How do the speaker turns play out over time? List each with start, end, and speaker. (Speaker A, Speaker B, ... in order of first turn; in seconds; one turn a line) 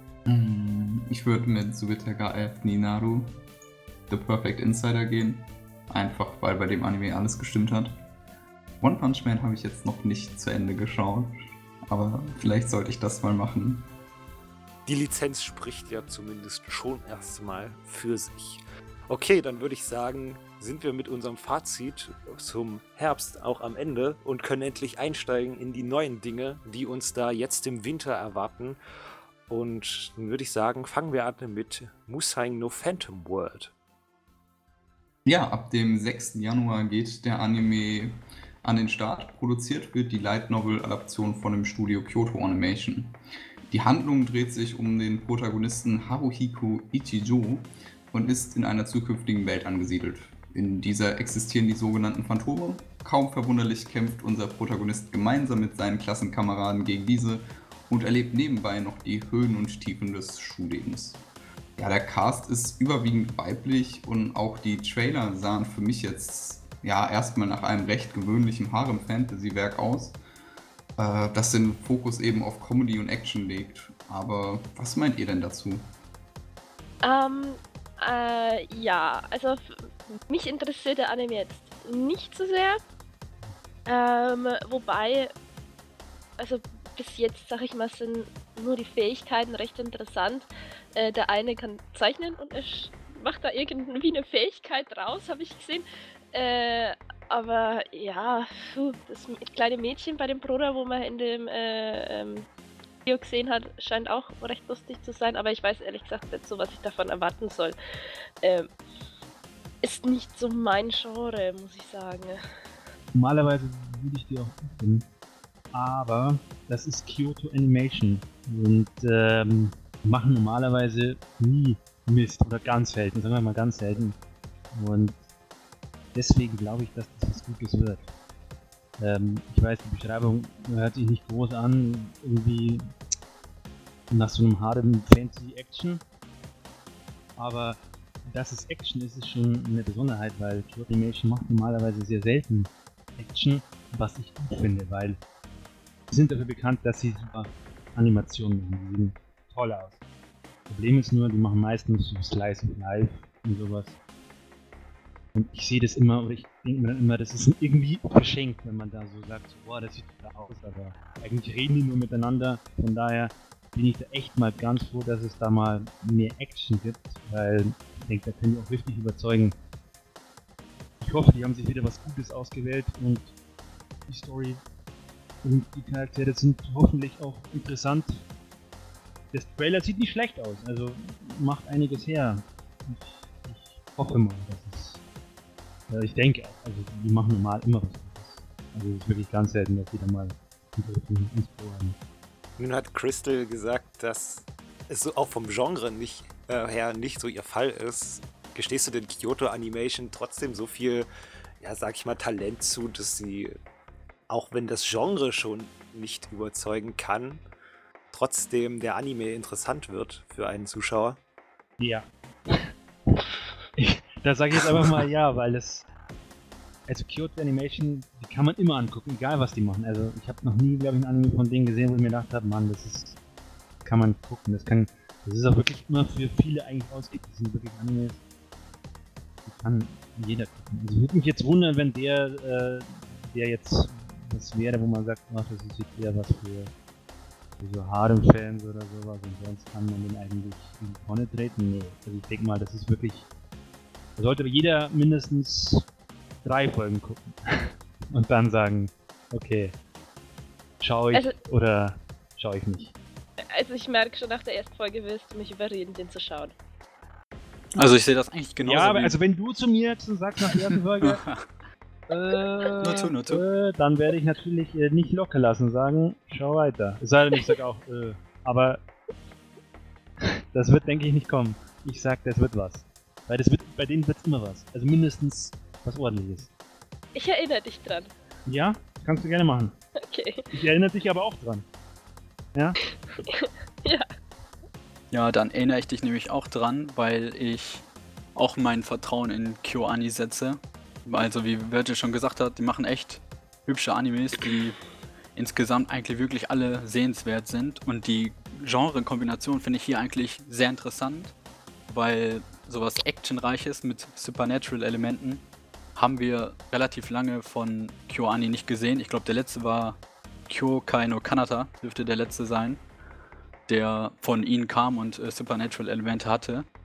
Speaker A: 0.3-3.4
Speaker A: 4.1-8.0
Speaker A: 8.8-11.4
Speaker A: 11.9-13.9
Speaker B: 14.9-28.8
Speaker B: 29.5-33.7
Speaker A: 35.2-61.2
Speaker A: 61.8-70.2
Speaker A: 71.0-75.9
Speaker C: 77.0-79.7
Speaker C: 80.3-82.8
Speaker C: 83.9-85.3
Speaker C: 86.4-102.5
Speaker C: 103.0-107.8
Speaker C: 108.4-108.7
Speaker C: 109.8-112.4
Speaker D: 113.1-115.1
Speaker D: 115.7-124.2
Speaker D: 124.7-125.2
Speaker D: 126.1-128.1
Speaker D: 129.0-132.9
Speaker D: 134.1-136.0
Speaker D: 137.4-145.2
Speaker D: 146.1-150.0
Speaker D: 150.7-154.0
Speaker D: 155.3-169.6
Speaker D: 171.0-173.3
Speaker D: 174.1-174.6
Speaker D: 175.4-178.2
Speaker D: 179.3-185.0
Speaker D: 185.9-192.0
Speaker B: 192.6-201.1
Speaker B: 201.6-203.6
Speaker B: 204.3-207.4
Speaker B: 208.1-211.2
Speaker D: 211.8-213.2
Speaker D: 213.8-215.9
Speaker D: 216.9-223.2
Speaker D: 223.8-228.2
Speaker D: 229.4-236.7
Speaker D: 237.6-243.3
Speaker D: 244.2-245.9
Speaker D: 246.4-247.4
Speaker D: 248.1-249.8
Speaker D: 250.8-252.9
Speaker C: 253.6-256.5
Speaker E: 257.8-259.2
Speaker D: 258.6-261.2
Speaker E: 260.4-261.5
Speaker D: 262.1-268.8
Speaker E: 262.8-263.4
Speaker D: 270.5-276.5
Speaker C: 277.1-278.1
Speaker D: 278.5-279.8
Speaker C: 280.1-280.5
Speaker D: 280.5-281.7
Speaker C: 282.9-284.1
Speaker E: 285.1-294.8
Speaker E: 295.4-301.4
Speaker E: 301.9-305.4
Speaker E: 306.0-312.8
Speaker E: 313.7-316.7